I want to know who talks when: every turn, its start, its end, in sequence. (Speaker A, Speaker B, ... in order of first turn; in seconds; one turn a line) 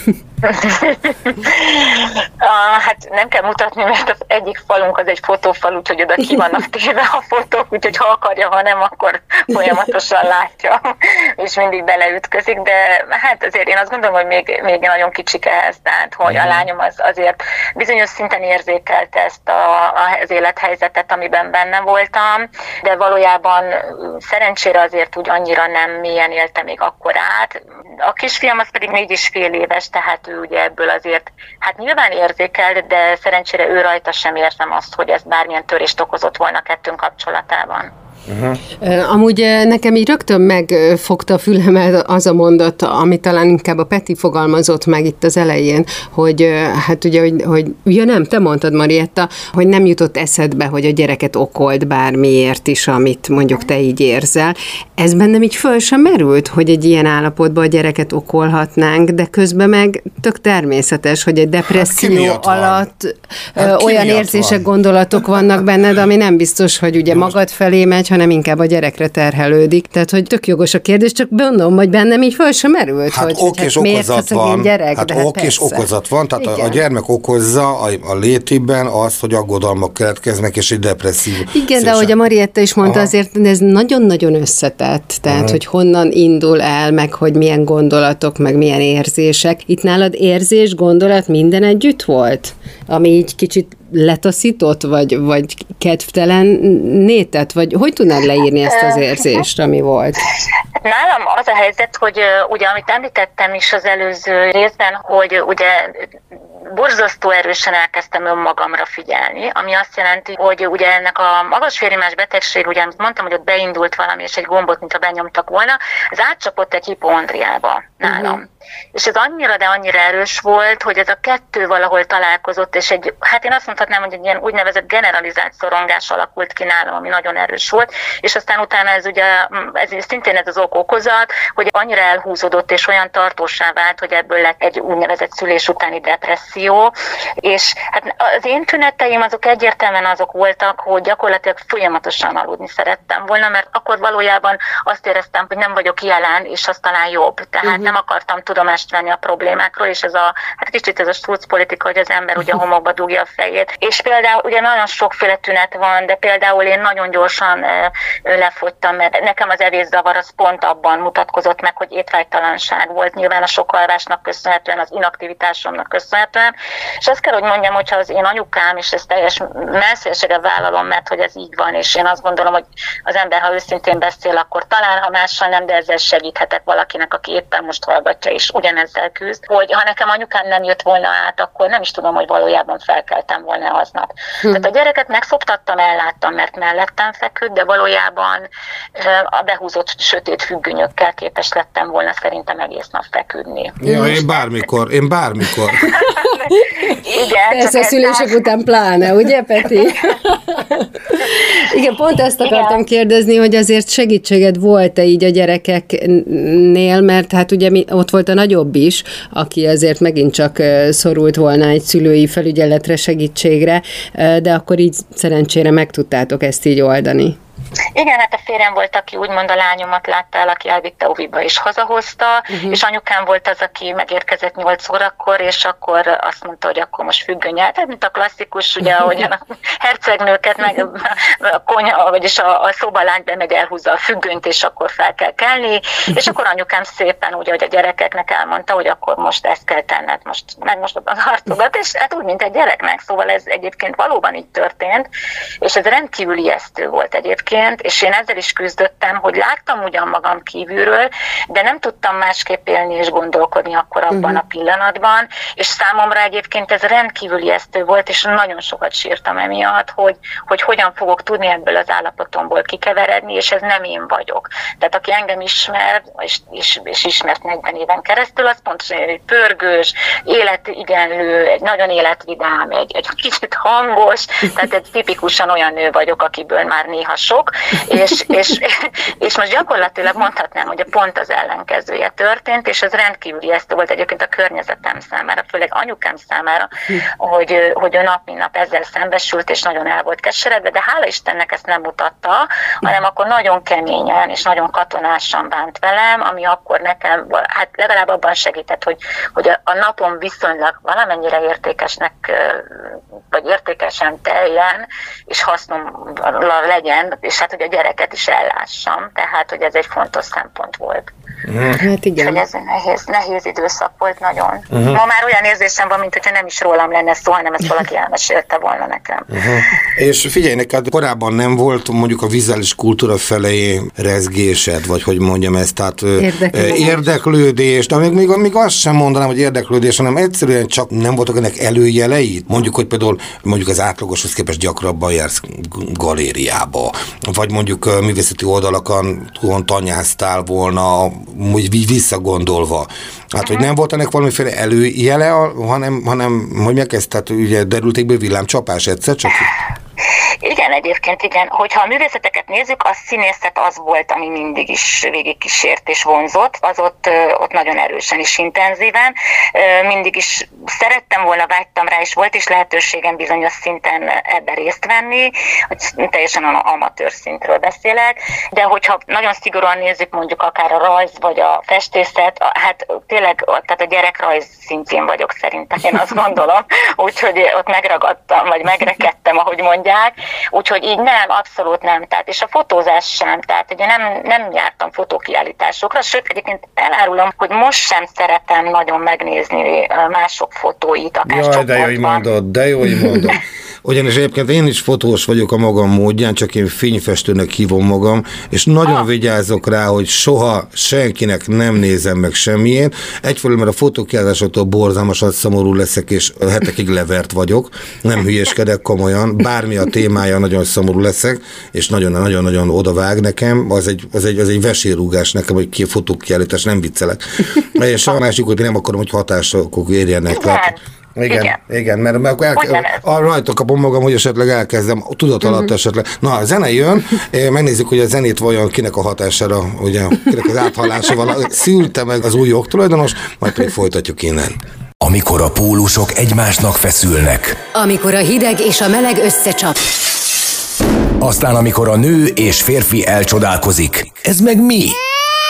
Speaker A: 0.4-37.9
Speaker B: 16.3-16.6
Speaker B: 38.3-38.6
Speaker C: 38.8-75.8
Speaker B: 61.7-62.9
Speaker B: 63.5-64.7
Speaker B: 73.1-82.1
Speaker C: 76.4-76.8
Speaker C: 81.5-100.2
Speaker B: 82.8-83.1
Speaker B: 85.3-85.6
Speaker A: 98.7-99.0
Speaker A: 100.8-106.1
Speaker A: 106.7-193.8
Speaker C: 118.0-118.4
Speaker C: 147.7-147.9
Speaker B: 193.8-195.9
Speaker C: 193.8-194.2
Speaker C: 195.8-217.4
Speaker A: 195.9-198.5
Speaker A: 199.7-200.1
Speaker A: 202.4-202.8
Speaker A: 217.9-245.1
Speaker C: 222.5-222.8
Speaker A: 245.6-311.1
Speaker C: 254.1-254.4
Speaker B: 311.4-311.8
Speaker C: 311.8-312.4
Speaker A: 312.2-319.3
Speaker B: 314.7-315.0
Speaker B: 319.3-349.5
Speaker C: 326.2-327.0
Speaker A: 350.4-392.2
Speaker B: 391.2-434.6
Speaker A: 420.3-420.8
Speaker A: 421.3-421.6
Speaker A: 422.6-423.0
Speaker D: 435.0-437.6
Speaker E: 437.7-439.9
Speaker D: 441.2-445.0